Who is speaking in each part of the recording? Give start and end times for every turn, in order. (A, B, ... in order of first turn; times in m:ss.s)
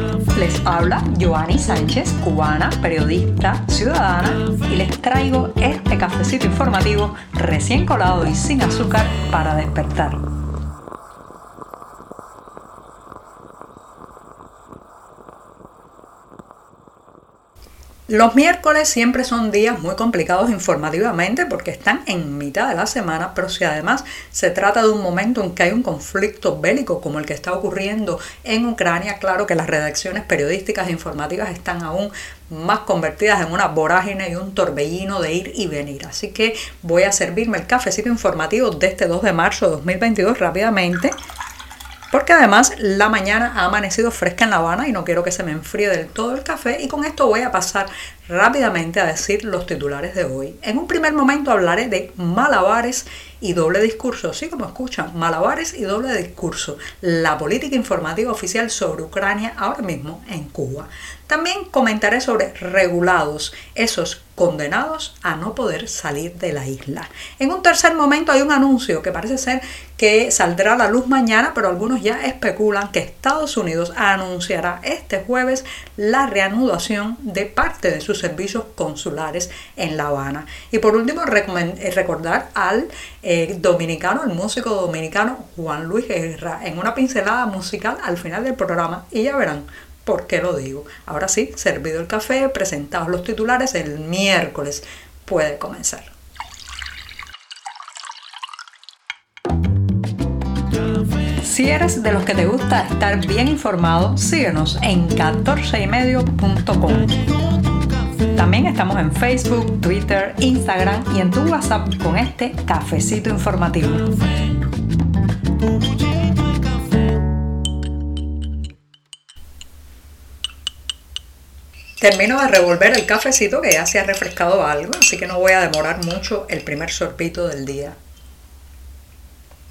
0:00.3-0:10.2 A
0:18.1-0:41.1 A
0:42.1-1:36.1 A
1:41.2-1:47.3 A
1:48.3-1:54.2 A
2:02.0-2:08.0 A